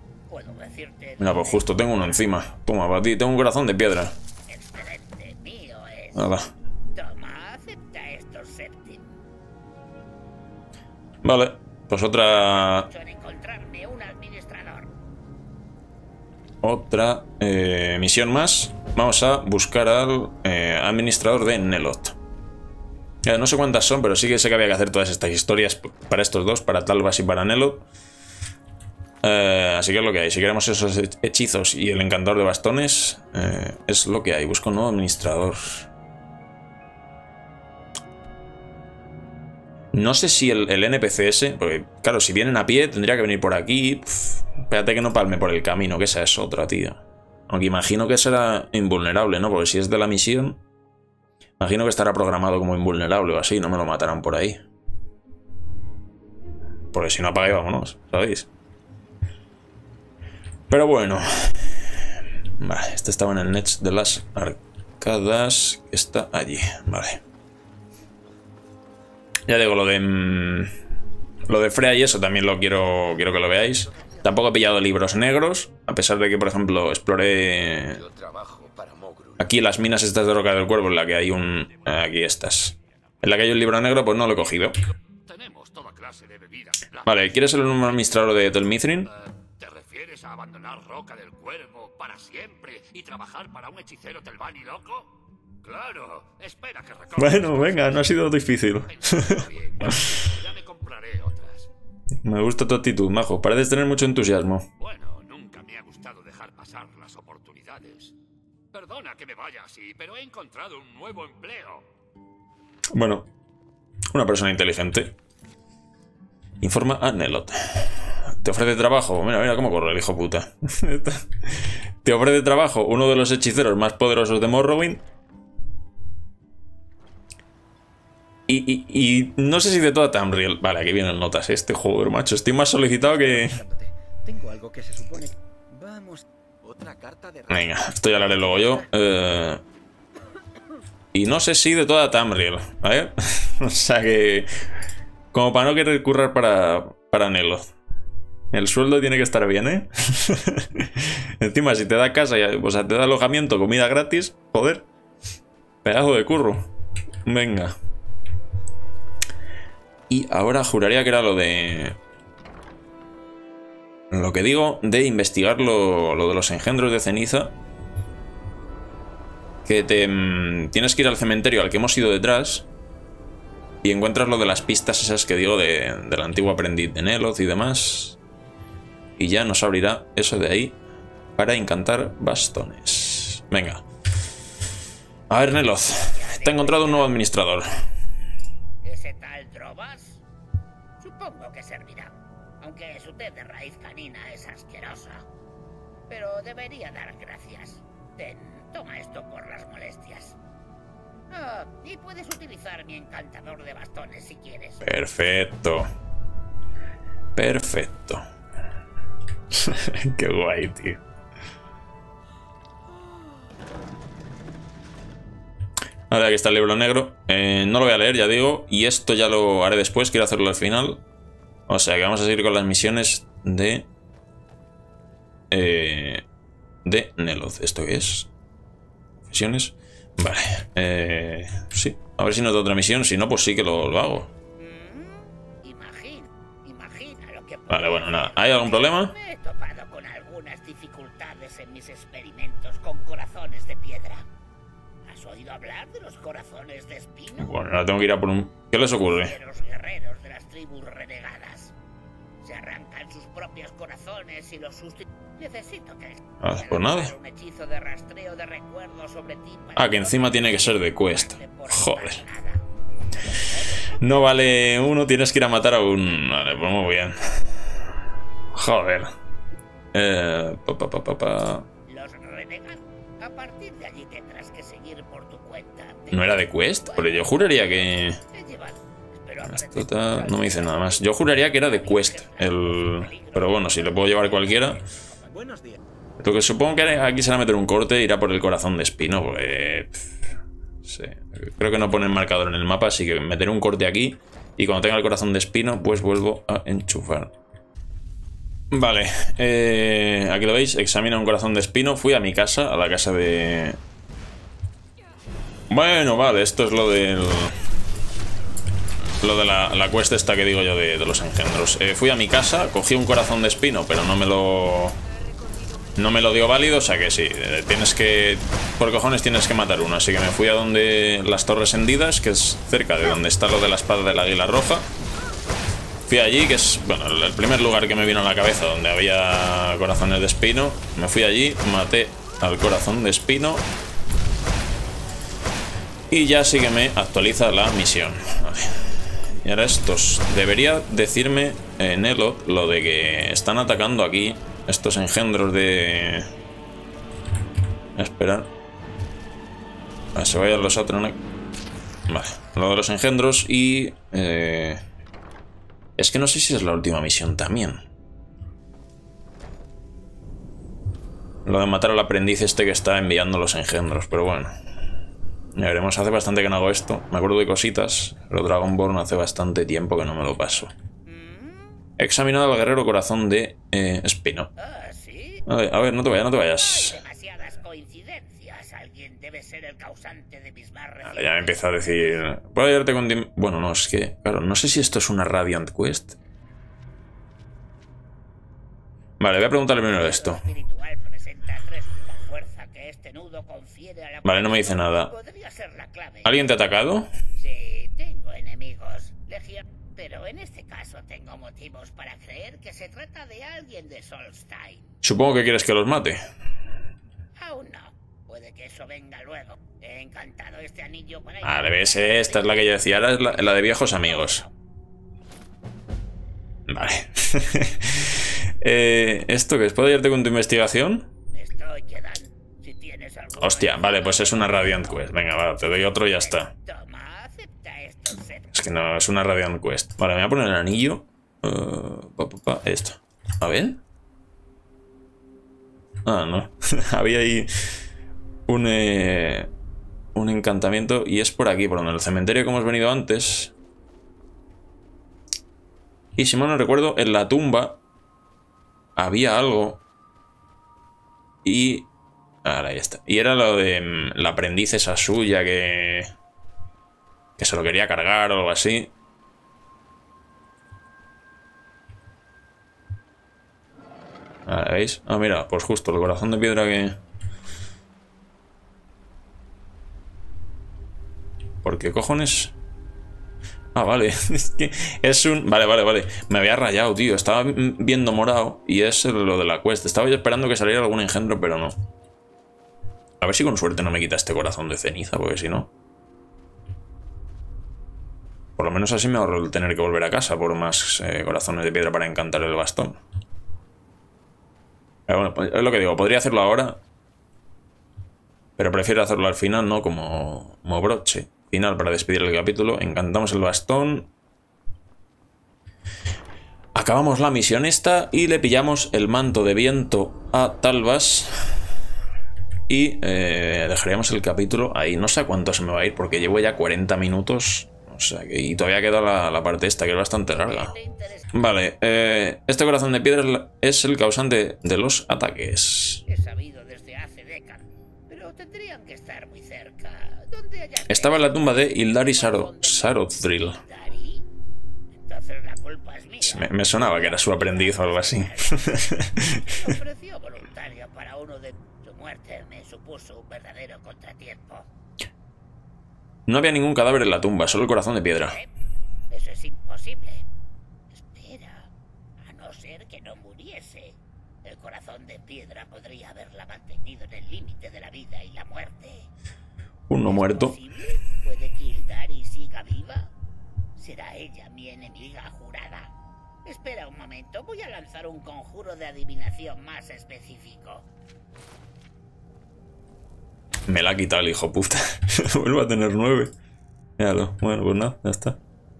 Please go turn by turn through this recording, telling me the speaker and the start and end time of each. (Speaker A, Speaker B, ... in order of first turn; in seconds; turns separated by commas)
Speaker A: 0.3-1.7, Speaker B: 1.2-4.1, Speaker A: 4.5-6.3, Speaker B: 6.1-6.5, Speaker A: 6.9-9.1, Speaker B: 11.2-12.9, Speaker A: 12.4-14.9, Speaker B: 16.6-22.2, Speaker B: 23.2-27.9, Speaker B: 29.2-35.9, Speaker B: 39.9-50.6, Speaker B: 51.6-54.6, Speaker B: 56.9-58.5, Speaker B: 60.7-61.9, Speaker B: 62.6-67.2, Speaker B: 69.5-70.7, Speaker B: 71.5-78.0, Speaker C: 78.0-79.4, Speaker B: 79.4-84.8, Speaker C: 85.2-87.9, Speaker B: 87.0-89.1, Speaker C: 89.0-98.2, Speaker B: 97.2-100.2, Speaker C: 98.8-101.7, Speaker B: 102.2-104.7, Speaker C: 104.8-108.1, Speaker C: 108.7-111.8, Speaker B: 112.9-113.3, Speaker B: 114.1-115.1, Speaker B: 116.6-125.0, Speaker B: 128.5-133.6, Speaker D: 133.0-138.9, Speaker B: 137.5-139.6, Speaker B: 141.1-144.5, Speaker B: 145.3-147.7, Speaker B: 148.5-154.9, Speaker B: 155.8-156.7, Speaker B: 157.2-157.7, Speaker B: 160.1-162.0, Speaker B: 164.1-167.5, Speaker B: 169.6-172.7, Speaker B: 173.8-178.2, Speaker B: 179.2-180.8, Speaker B: 181.4-183.8, Speaker B: 185.3-187.7, Speaker A: 186.1-187.2, Speaker A: 188.8-190.2, Speaker A: 191.0-195.2, Speaker A: 196.1-200.4, Speaker A: 201.3-204.8, Speaker B: 204.8-205.9, Speaker B: 207.3-208.2, Speaker B: 209.5-211.0, Speaker B: 216.1-221.0, Speaker B: 221.7-223.8, Speaker B: 225.5-226.2, Speaker B: 226.8-228.3, Speaker B: 229.3-234.3, Speaker A: 234.6-244.3, Speaker B: 237.7-239.1, Speaker A: 245.1-247.5, Speaker B: 247.4-249.3, Speaker A: 249.0-251.7, Speaker A: 252.4-262.6, Speaker B: 256.4-257.1, Speaker B: 259.7-262.2, Speaker A: 263.3-264.2, Speaker B: 264.0-267.2, Speaker B: 268.5-269.1, Speaker B: 269.9-271.7, Speaker A: 271.9-285.2, Speaker B: 276.1-278.2, Speaker B: 279.4-284.8, Speaker D: 285.3-285.8, Speaker B: 286.2-290.1, Speaker B: 290.8-297.3, Speaker B: 298.7-303.8, Speaker B: 305.7-307.6, Speaker B: 309.2-315.0, Speaker B: 315.9-324.9, Speaker B: 326.1-333.6, Speaker B: 336.1-338.8, Speaker B: 339.4-346.3, Speaker B: 347.9-348.5, Speaker B: 350.1-351.2, Speaker B: 352.1-354.8, Speaker B: 356.0-357.8, Speaker B: 361.4-364.5, Speaker B: 365.5-370.7, Speaker A: 371.1-371.8, Speaker B: 372.0-374.5, Speaker A: 374.6-375.4, Speaker B: 375.5-377.0, Speaker A: 376.4-382.2, Speaker B: 381.0-386.2, Speaker B: 389.2-390.4, Speaker A: 389.9-396.4, Speaker B: 394.2-395.1, Speaker B: 396.2-397.1, Speaker A: 397.4-404.9, Speaker B: 405.0-406.2, Speaker A: 407.4-414.5, Speaker B: 411.4-414.4, Speaker B: 416.7-421.1, Speaker A: 421.3-425.1, Speaker B: 423.4-426.5, Speaker A: 425.9-428.5, Speaker B: 428.5-433.8, Speaker B: 436.1-437.5, Speaker B: 438.5-439.5, Speaker B: 440.1-443.5, Speaker B: 446.2-447.8, Speaker B: 449.0-449.8, Speaker B: 451.4-451.9, Speaker B: 452.4-456.1, Speaker B: 457.4-458.9, Speaker B: 464.5-467.0, Speaker B: 471.6-472.5, Speaker B: 473.7-481.7, Speaker B: 483.2-485.7, Speaker B: 488.6-493.0, Speaker B: 495.1-496.8, Speaker B: 498.6-504.1, Speaker B: 506.7-511.5, Speaker B: 512.7-520.7, Speaker A: 520.3-521.3, Speaker B: 521.3-526.0, Speaker A: 526.0-534.2, Speaker B: 530.9-533.6, Speaker A: 534.9-544.7, Speaker B: 536.2-539.7, Speaker B: 546.3-548.4, Speaker A: 548.1-548.5, Speaker A: 549.1-550.2, Speaker A: 550.9-551.7, Speaker A: 552.2-559.1, Speaker B: 559.9-560.5, Speaker A: 560.0-563.1, Speaker A: 563.8-565.9, Speaker A: 566.4-570.9, Speaker B: 573.7-576.3, Speaker B: 577.0-578.4